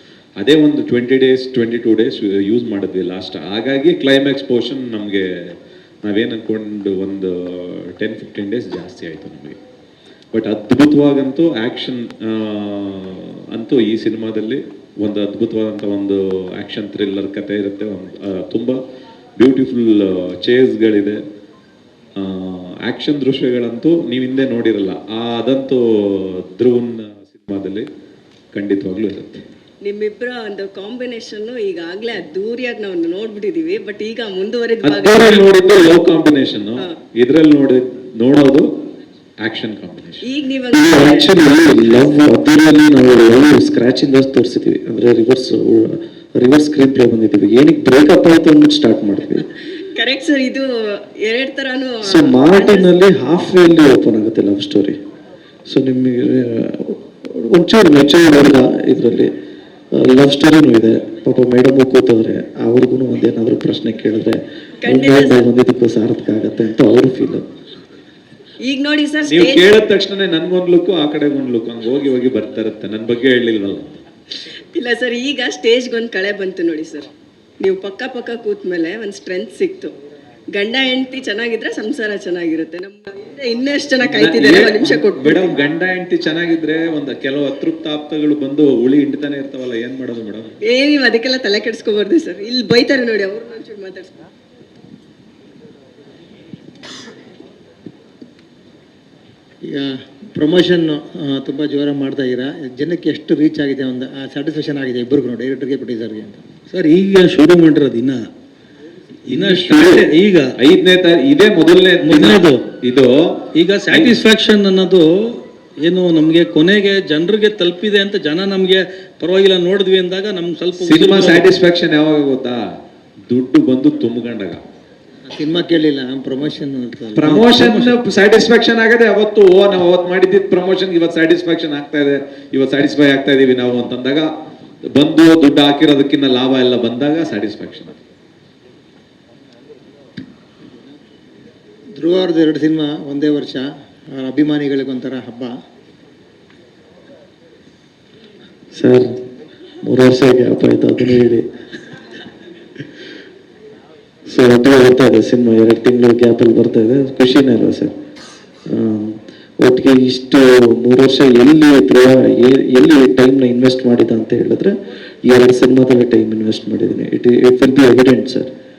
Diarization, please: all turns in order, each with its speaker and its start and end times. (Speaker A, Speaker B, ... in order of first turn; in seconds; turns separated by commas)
Speaker A: 0.4-9.6, Speaker A: 10.3-18.8, Speaker A: 19.4-21.2, Speaker A: 22.2-27.9, Speaker A: 28.5-29.4, Speaker B: 29.8-35.9, Speaker A: 34.8-38.7, Speaker A: 39.4-40.2, Speaker B: 40.2-42.0, Speaker C: 40.7-49.5, Speaker B: 49.9-52.9, Speaker C: 52.0-55.0, Speaker C: 55.7-59.3, Speaker C: 59.9-67.5, Speaker B: 64.8-65.4, Speaker B: 68.7-69.7, Speaker A: 69.2-74.0, Speaker B: 74.7-77.1, Speaker B: 77.6-79.9, Speaker B: 80.5-85.5, Speaker A: 84.0-90.5, Speaker B: 90.7-94.3, Speaker D: 99.6-106.4, Speaker E: 106.7-108.2, Speaker E: 109.3-110.5, Speaker A: 109.3-114.2, Speaker E: 112.0-112.6, Speaker E: 113.5-121.5, Speaker A: 120.8-122.6, Speaker A: 123.3-124.6, Speaker D: 125.3-127.6, Speaker A: 127.2-134.3, Speaker E: 127.5-127.9, Speaker A: 134.9-138.0, Speaker D: 141.9-145.5, Speaker C: 148.7-149.2, Speaker C: 149.8-151.4, Speaker C: 154.3-157.9, Speaker C: 158.7-164.7, Speaker C: 165.2-168.5